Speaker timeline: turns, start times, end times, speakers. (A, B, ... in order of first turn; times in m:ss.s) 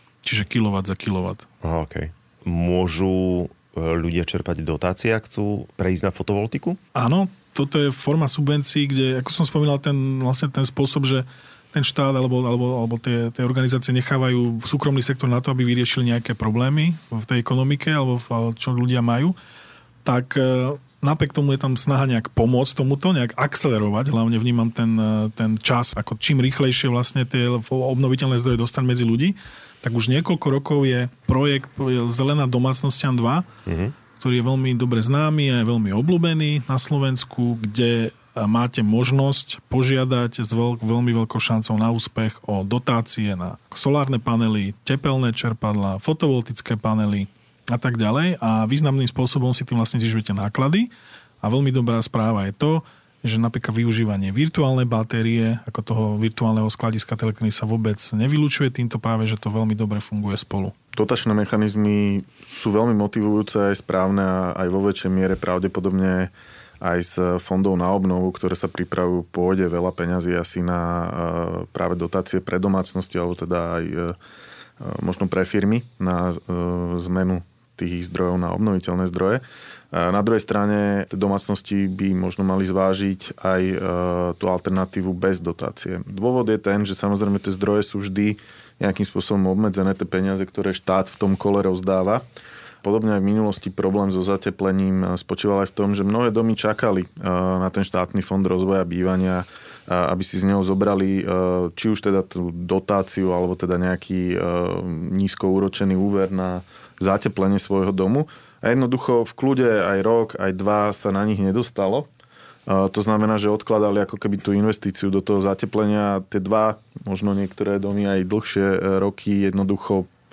0:00.2-0:01.5 A
0:01.6-0:06.8 B
0:07.0-0:19.4 A
0:20.0-0:33.5 A
0:33.7-0:33.9 B
0:34.2-0:50.9 A
0:51.4-1:00.7 A
1:01.0-1:14.2 C
1:14.8-1:32.2 C
1:32.8-1:52.1 C
1:52.7-2:00.1 C